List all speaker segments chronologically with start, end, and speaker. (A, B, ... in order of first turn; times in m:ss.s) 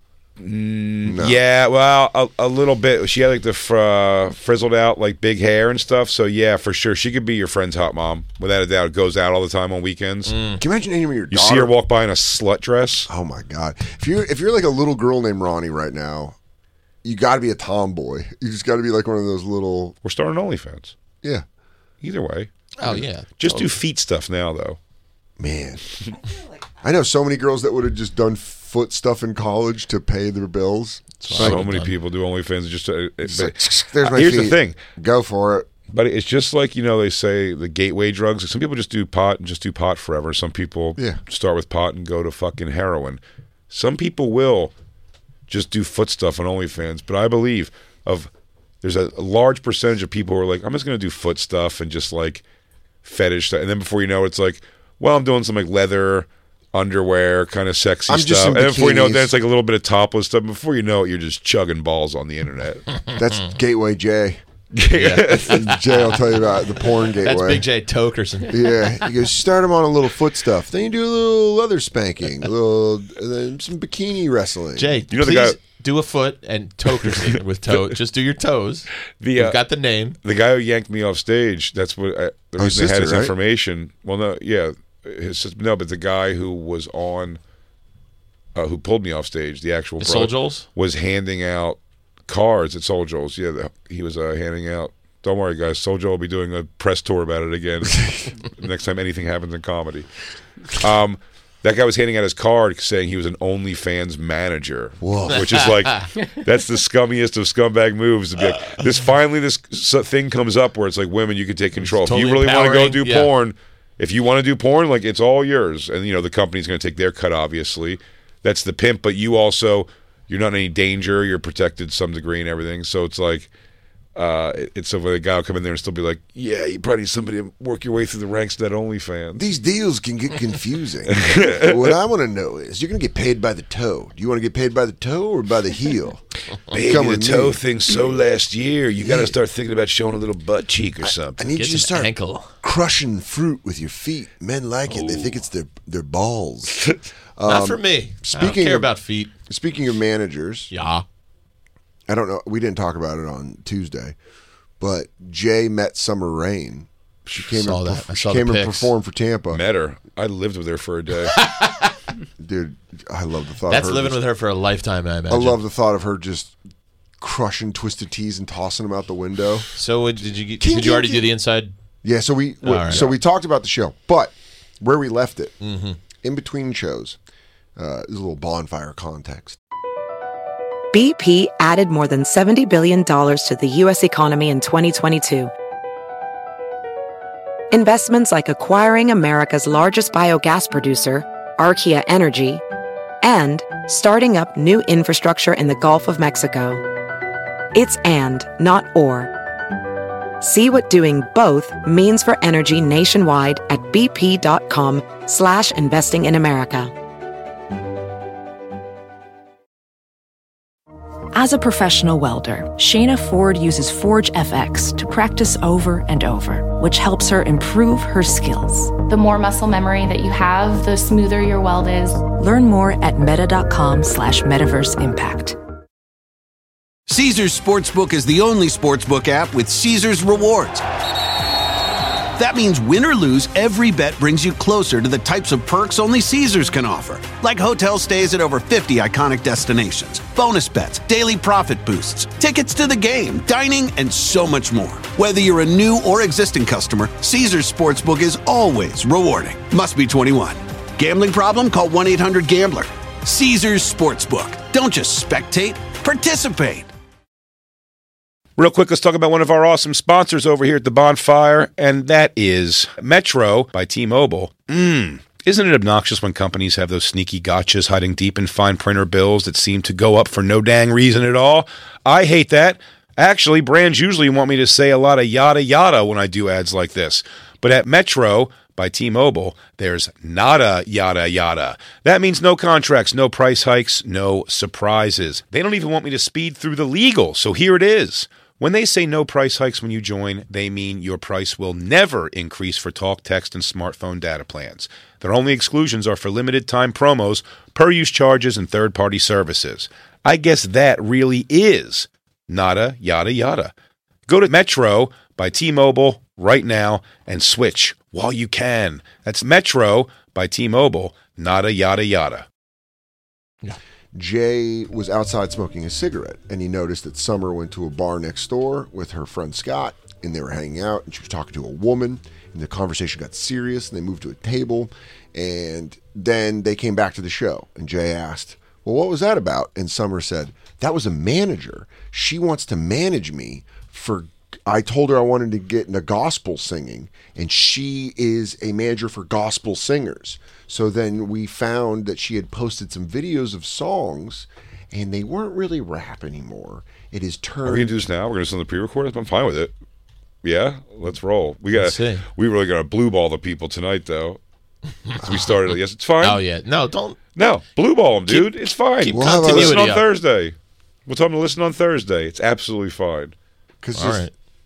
0:00.4-0:10.4 A
0:01.0-0:01.4 B
0:10.3-0:10.6 C
0:10.6-0:11.7 B
0:11.3-0:13.1 A
0:13.1-0:16.4 B
0:17.0-0:20.0 B
0:20.0-0:21.0 A
0:22.0-0:24.8 A
0:22.8-0:23.8 C
0:25.4-0:25.8 B
0:26.8-0:31.7 B
0:31.2-0:31.9 C
0:31.3-0:34.8 A
0:33.2-0:35.7 B
0:35.9-0:44.7 A
0:45.5-0:48.3 A
0:48.8-0:52.4 A
0:53.0-1:02.8 A
0:58.1-0:59.3 B
1:03.2-1:04.4 B
1:04.7-1:05.6 A
1:04.9-1:06.2 C
1:05.4-1:07.7 B
1:07.2-1:08.6 C
1:08.5-1:14.9 B
1:14.8-1:20.2 C
1:15.1-1:15.6 A
1:19.2-1:19.6 A
1:20.2-1:27.4 A
1:22.6-1:23.4 B
1:28.6-1:40.1 A
1:30.0-1:30.7 C
1:40.7-2:03.5 A
1:45.0-1:45.7 B
1:45.3-1:46.1 C
1:48.5-1:48.8 C
1:51.8-1:53.3 C
2:04.2-2:09.5 A
2:09.4-2:17.6 B
2:11.1-2:12.0 A
2:16.7-2:21.4 A
2:19.0-2:19.4 B
2:21.0-2:26.9 B
2:21.4-2:22.5 C
2:27.4-2:28.9 B
2:27.5-2:29.3 C
2:29.5-2:30.7 B
2:30.7-2:31.0 C
2:32.1-2:34.2 B
2:34.8-2:39.6 B
2:37.5-2:38.9 C
2:39.5-2:41.4 A
2:41.3-2:42.0 C
2:42.4-2:44.2 B
2:43.7-2:45.6 C
2:45.3-2:46.6 B
2:47.2-2:49.7 B
2:49.8-2:51.7 C
2:50.6-2:51.3 B
2:52.0-2:55.6 B
2:52.6-2:53.2 C
2:55.6-2:56.0 C
2:56.2-2:57.2 B
2:57.8-2:59.6 B
3:00.9-3:05.5 D
3:07.7-3:12.6 D
3:13.2-3:16.8 D
3:17.7-3:19.3 D
3:20.4-3:26.9 D
3:31.3-3:39.0 E
3:39.1-3:42.2 F
3:42.2-3:45.6 E
3:47.1-3:50.8 G
3:52.4-4:16.9 G
4:18.6-5:03.7 A
5:04.3-5:12.5 A
5:14.1-5:47.9 B
5:47.6-5:49.7 A
5:50.4-5:54.4 A
5:51.7-5:52.2 C
5:55.2-5:56.4 A
5:56.2-5:57.2 C
5:57.4-6:03.3 A
5:58.3-6:00.1 C
5:59.1-5:59.9 B
6:03.8-6:04.3 B
6:04.0-6:04.3 C